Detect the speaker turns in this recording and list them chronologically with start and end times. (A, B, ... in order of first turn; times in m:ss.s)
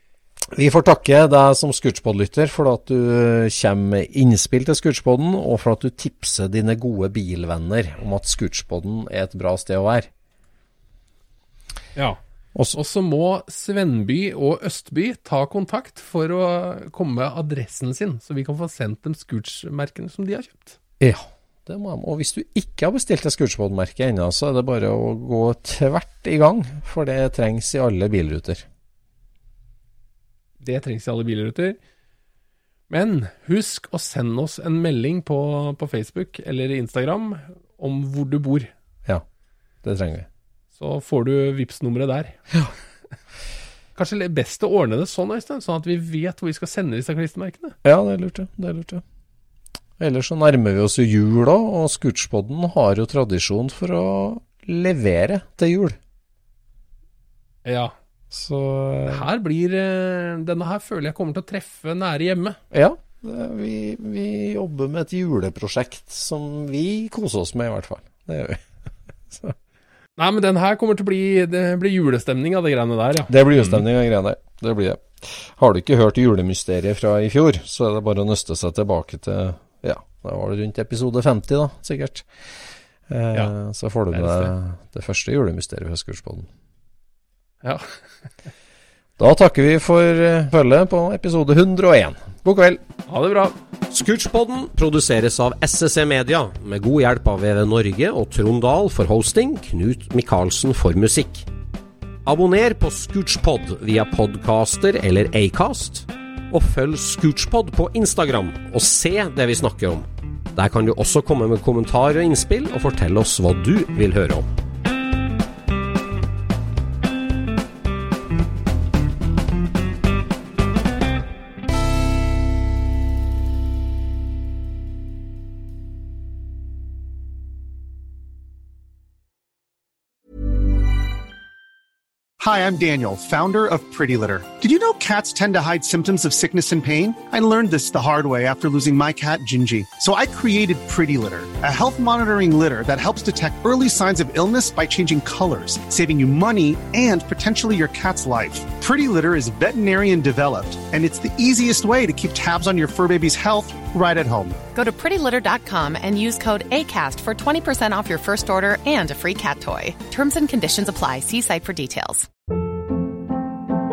0:00.5-0:10.1 A
0:12.7-0:20.8 B
0:21.0-0:28.6 A
0:30.6-0:31.8 B
0:32.9-0:38.7 B
0:39.8-0:40.3 A
0:40.8-0:42.4 B
0:44.0-0:47.8 B
0:47.8-0:49.0 A
0:50.0-0:56.0 A
0:57.6-0:57.9 B
0:58.3-0:59.3 A
0:59.1-1:02.6 B
1:02.7-1:08.6 A
1:09.3-1:09.6 A
1:10.2-1:13.8 B
1:13.3-1:22.5 A
1:23.1-1:26.5 A
1:24.1-1:24.5 B
1:27.6-1:28.0 B
1:29.2-1:32.8 A
1:33.1-1:33.6 B
1:33.9-1:41.4 A
1:34.0-1:35.2 C
1:35.8-1:41.1 C
1:42.3-1:50.0 A
1:42.5-1:46.0 C
1:46.5-1:50.0 C
1:50.6-1:54.4 A
1:50.7-1:54.4 C
2:12.4-2:34.6 D
2:34.7-2:42.3 E